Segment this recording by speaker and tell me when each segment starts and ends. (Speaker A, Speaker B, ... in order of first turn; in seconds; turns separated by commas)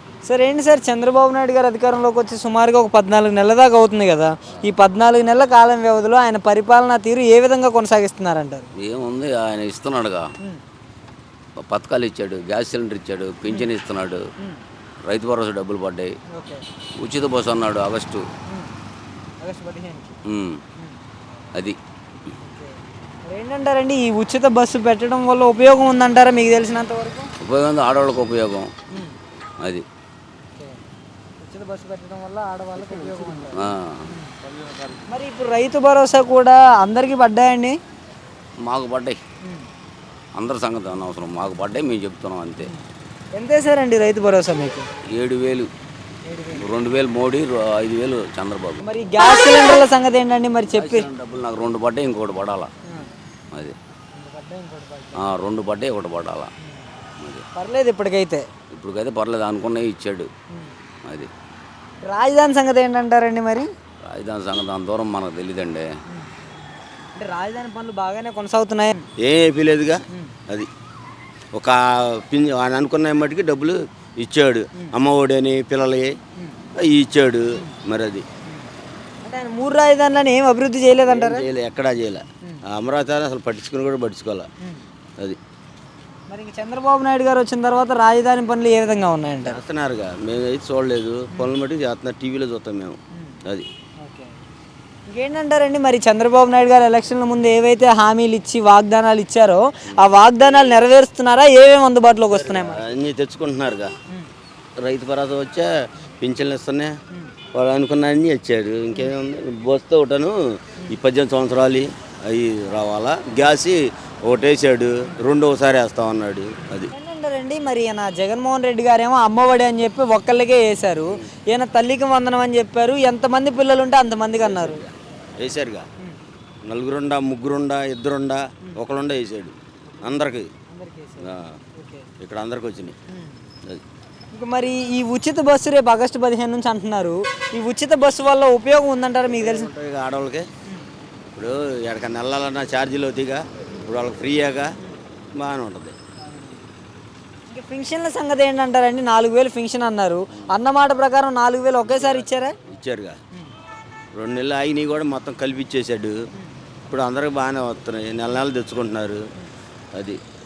Speaker A: 0.2-8.7, Speaker B: 8.8-10.2, Speaker B: 11.7-14.2, Speaker A: 13.4-13.7, Speaker B: 15.1-16.1, Speaker A: 16.3-16.6, Speaker B: 17.0-18.2, Speaker A: 18.5-18.7, Speaker A: 19.4-20.2, Speaker B: 20.3-20.6, Speaker A: 22.4-27.3, Speaker B: 27.4-28.7, Speaker A: 28.9-29.2, Speaker A: 31.4-34.4, Speaker B: 33.5-34.1, Speaker A: 35.1-37.8, Speaker B: 38.6-39.2, Speaker A: 39.4-39.7, Speaker B: 40.4-42.7, Speaker A: 42.6-44.9, Speaker B: 45.1-45.7, Speaker A: 46.3-46.7, Speaker B: 46.6-48.8, Speaker A: 48.8-51.1, Speaker B: 50.8-52.7, Speaker A: 54.1-55.3, Speaker B: 55.2-56.5, Speaker A: 56.6-56.9, Speaker A: 57.5-58.5, Speaker B: 58.7-60.3, Speaker A: 62.0-63.7, Speaker B: 64.1-65.9, Speaker A: 67.2-69.1, Speaker C: 69.2-70.7, Speaker C: 71.5-76.2, Speaker C: 76.8-78.2, Speaker A: 79.2-81.5, Speaker C: 80.9-84.5, Speaker A: 86.3-89.6, Speaker C: 89.5-93.7, Speaker A: 93.1-93.4, Speaker A: 94.0-94.4, Speaker A: 95.1-102.9, Speaker C: 102.3-103.9, Speaker C: 104.8-106.9, Speaker C: 107.5-116.9, Speaker A: 116.9-124.8, Speaker C: 124.4-125.9, Speaker C: 126.7-130.5, Speaker A: 129.9-132.1, Speaker C: 131.2-131.6, Speaker C: 132.2-133.0, Speaker A: 133.1-133.4, Speaker A: 134.3-139.7, Speaker C: 139.3-140.5, Speaker C: 141.4-144.8, Speaker C: 145.4-146.0, Speaker A: 146.2-146.7, Speaker A: 147.5-152.6, Speaker C: 151.9-153.2, Speaker C: 154.2-156.2, Speaker C: 156.9-159.2, Speaker C: 159.9-160.2